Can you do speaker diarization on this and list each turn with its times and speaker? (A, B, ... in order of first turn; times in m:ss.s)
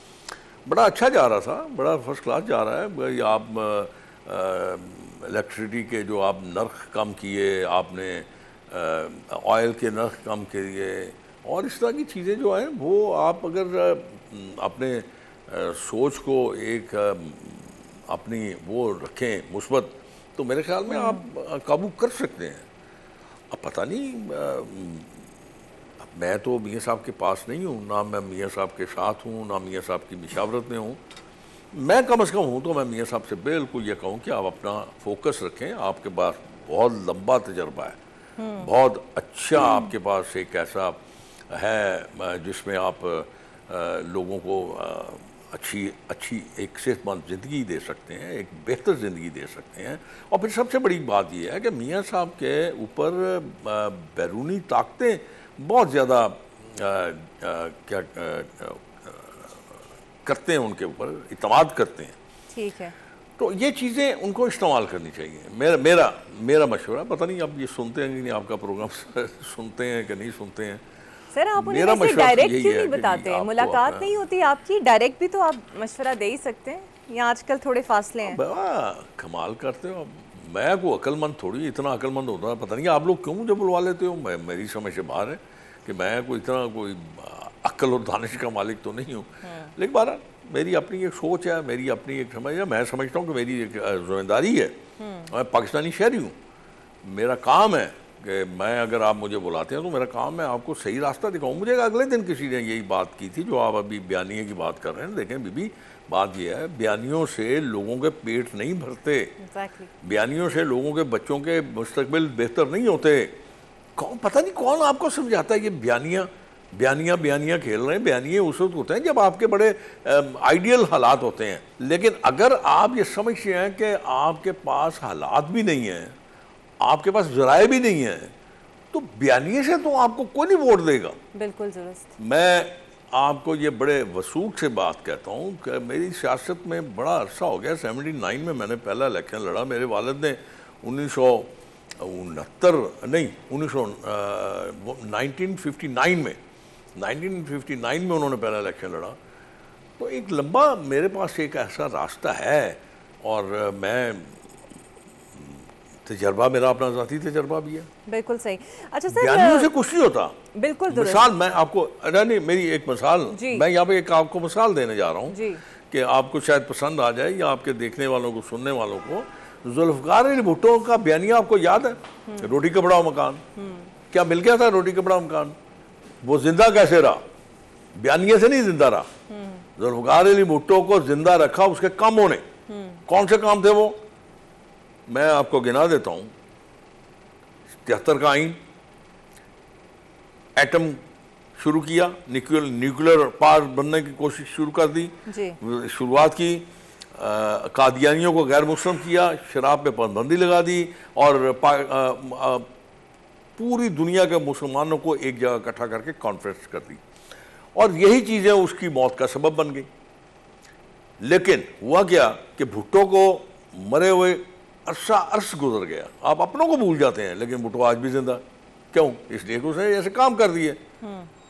0:00.6-0:22.7 A
0:20.9-0:21.2 B
0:23.5-0:25.2 A
0:26.0-0:31.0 A
0:31.7-0:38.0 A
0:38.4-0:38.7 B
0:38.6-1:02.2 A
1:02.5-1:02.9 B
1:03.4-1:10.8 A
1:11.3-1:18.4 B
1:11.6-1:14.1 A
1:18.2-1:36.4 A
1:29.4-1:29.7 B
1:35.0-1:35.3 B
1:37.0-1:49.4 A
1:49.4-1:49.9 B
1:50.0-1:53.3 A
1:54.0-2:06.1 A
2:06.8-2:08.3 A
2:08.9-2:11.2 A
2:11.3-2:12.1 B
2:12.2-2:26.4 A
2:27.0-2:29.2 A
2:30.0-2:34.5 A
2:35.3-2:37.9 A
2:38.1-2:39.7 B
2:39.1-2:40.4 A
2:40.5-2:41.2 B
2:40.9-2:53.4 A
2:43.3-2:43.6 B
2:45.3-2:45.6 B
2:52.3-2:52.5 B
2:53.6-2:53.9 B
2:54.1-2:55.6 A
2:56.2-2:57.2 A
2:57.9-2:59.1 A
2:59.3-2:59.6 B
2:59.8-3:02.5 A
3:02.7-3:03.0 B
3:03.1-3:04.0 A
3:05.1-3:06.3 A
3:07.8-3:08.6 A
3:10.6-3:11.0 A
3:11.6-3:22.7 A
3:15.3-3:15.6 B
3:23.6-3:27.0 A
3:27.8-3:29.9 A
3:31.2-3:40.8 A
3:41.0-3:41.3 B